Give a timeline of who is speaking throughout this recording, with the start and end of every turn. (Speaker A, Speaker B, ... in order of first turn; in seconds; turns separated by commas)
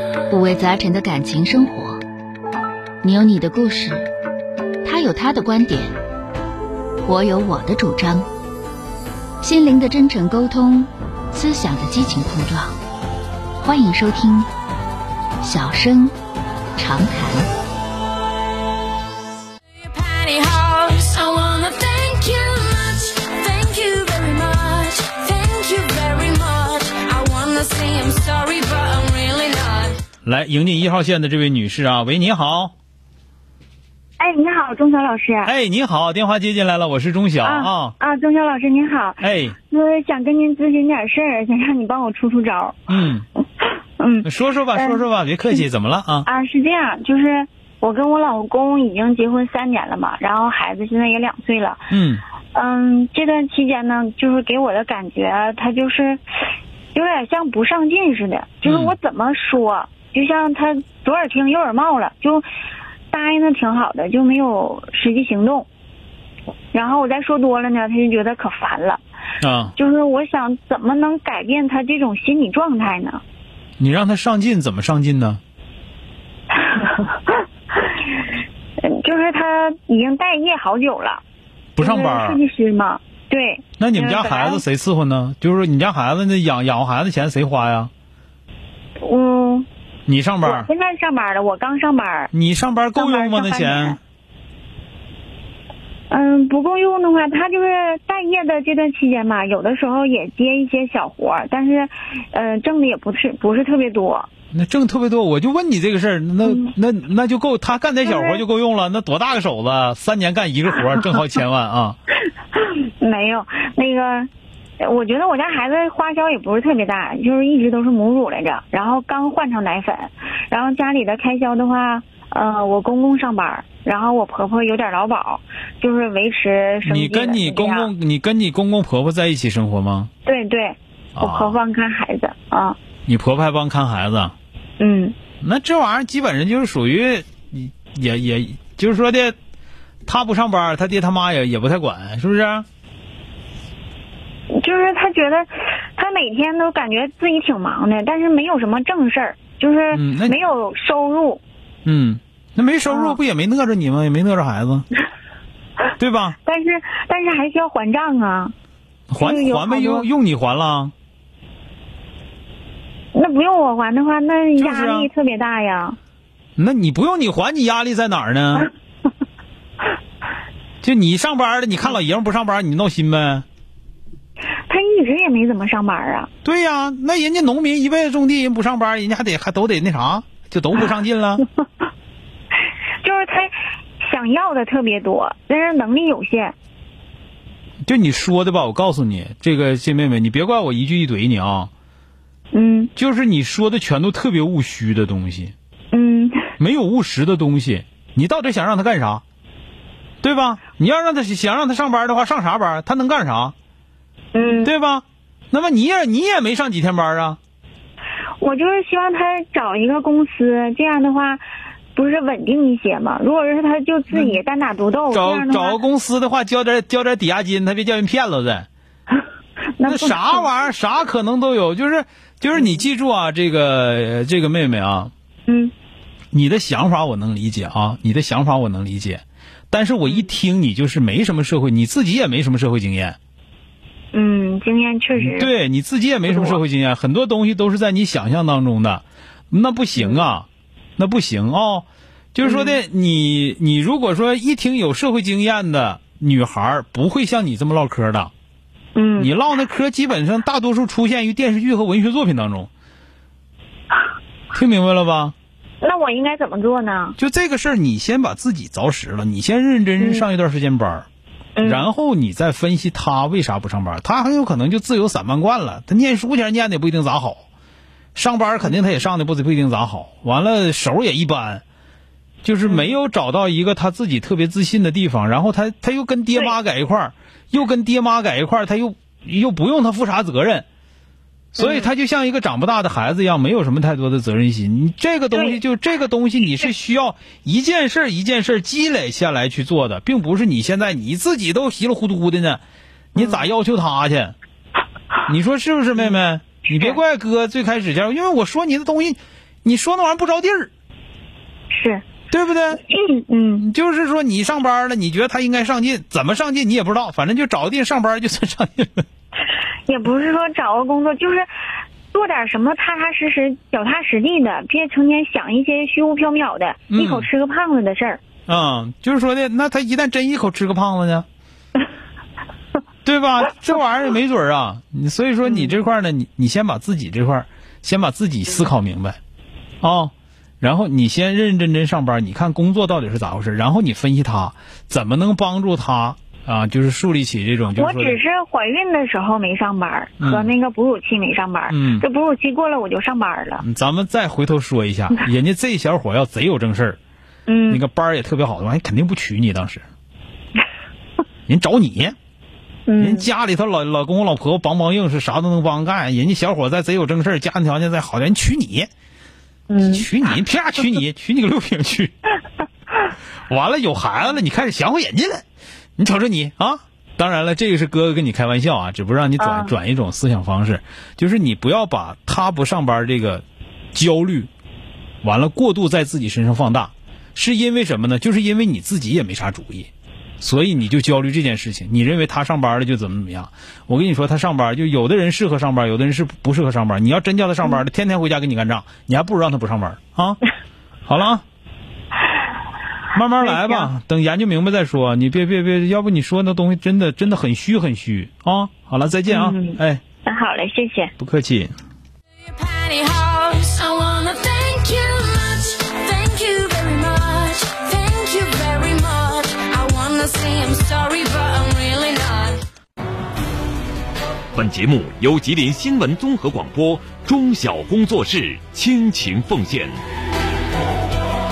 Speaker A: 0.3-2.0, Speaker A: 3.0-4.1, Speaker A: 4.8-6.0, Speaker A: 7.1-8.3, Speaker A: 9.4-12.8, Speaker A: 13.6-14.5, Speaker A: 15.4-16.1, Speaker A: 16.8-17.5, Speaker B: 19.8-30.0, Speaker C: 30.2-32.7, Speaker D: 34.2-35.5, Speaker C: 35.5-38.0, Speaker D: 37.4-42.8, Speaker C: 39.2-39.6, Speaker C: 42.9-43.3, Speaker D: 44.0-45.0, Speaker C: 44.2-46.3, Speaker D: 46.2-51.9, Speaker C: 51.9-52.2, Speaker D: 52.5-56.2, Speaker D: 56.9-62.4, Speaker C: 58.6-59.0, Speaker D: 63.1-65.7, Speaker D: 66.7-69.0, Speaker C: 69.4-69.7, Speaker D: 69.8-73.2, Speaker C: 73.8-75.4, Speaker D: 76.6-77.3, Speaker D: 78.8-81.2, Speaker C: 81.8-82.4, Speaker D: 81.8-84.6, Speaker C: 83.8-87.9, Speaker D: 89.0-89.7, Speaker C: 90.1-90.7, Speaker D: 90.4-92.3, Speaker C: 92.3-94.0, Speaker D: 93.0-94.0, Speaker D: 96.1-104.3, Speaker C: 104.5-112.0, Speaker D: 106.5-106.7, Speaker D: 108.1-108.4, Speaker D: 113.0-127.9, Speaker C: 126.8-130.1, Speaker D: 130.2-132.8, Speaker C: 131.2-131.6, Speaker C: 133.1-134.3, Speaker D: 134.8-135.2, Speaker C: 135.4-139.3, Speaker C: 140.1-142.7, Speaker D: 144.5-151.4, Speaker C: 149.9-150.4, Speaker C: 151.8-154.8, Speaker D: 152.9-153.2, Speaker C: 156.0-156.4, Speaker D: 156.4-158.5, Speaker C: 159.1-160.9, Speaker D: 159.2-160.1, Speaker D: 163.1-166.0, Speaker C: 164.6-165.1, Speaker C: 166.6-168.7, Speaker C: 170.8-173.4, Speaker D: 174.7-176.3, Speaker C: 176.4-181.4, Speaker D: 183.0-186.6, Speaker C: 187.8-191.7, Speaker D: 192.5-192.9, Speaker C: 193.0-195.5, Speaker D: 195.9-196.5, Speaker C: 196.6-199.2, Speaker C: 200.2-203.5, Speaker D: 204.3-204.7, Speaker C: 204.6-207.4, Speaker D: 208.4-211.4, Speaker D: 211.9-215.8, Speaker C: 214.1-214.4, Speaker C: 215.1-218.7, Speaker D: 219.8-220.5, Speaker C: 219.8-225.1, Speaker D: 222.6-222.8, Speaker D: 225.5-225.7, Speaker C: 226.3-233.2, Speaker D: 234.1-235.5, Speaker C: 235.2-240.5, Speaker D: 236.3-236.6, Speaker D: 240.0-240.2, Speaker C: 241.0-248.3, Speaker D: 242.4-242.8, Speaker D: 248.9-249.3, Speaker C: 249.2-252.7, Speaker C: 254.5-255.3, Speaker D: 255.8-257.2, Speaker C: 257.2-261.1, Speaker D: 260.0-260.2, Speaker D: 261.6-261.9, Speaker C: 261.6-267.4, Speaker C: 268.1-271.6, Speaker C: 272.4-280.6, Speaker D: 272.6-273.0, Speaker C: 281.6-292.6, Speaker D: 281.6-281.9, Speaker D: 285.3-285.6, Speaker C: 293.1-294.4, Speaker D: 293.2-293.5, Speaker C: 295.3-300.7, Speaker D: 296.7-297.0, Speaker D: 301.7-302.1, Speaker C: 302.3-302.8, Speaker D: 302.9-303.6, Speaker C: 303.6-309.0, Speaker D: 309.9-311.5, Speaker D: 312.1-318.2, Speaker C: 316.9-317.3, Speaker C: 318.5-321.3, Speaker C: 323.1-329.2, Speaker D: 325.5-325.7, Speaker C: 329.8-338.2, Speaker D: 337.8-343.6, Speaker C: 340.2-340.5, Speaker C: 341.7-342.1, Speaker C: 343.6-347.0, Speaker D: 347.5-347.8, Speaker C: 347.7-349.8, Speaker C: 351.5-352.1, Speaker D: 352.9-353.3, Speaker C: 353.0-358.9, Speaker D: 359.7-360.1, Speaker C: 359.8-362.1, Speaker C: 363.5-365.4, Speaker C: 366.0-374.5, Speaker D: 369.4-369.7, Speaker C: 375.2-390.4, Speaker C: 391.1-391.4, Speaker C: 393.1-400.0, Speaker D: 393.4-393.9, Speaker D: 399.3-401.1, Speaker C: 401.2-401.7, Speaker B: 402.5-412.6, Speaker E: 414.5-420.0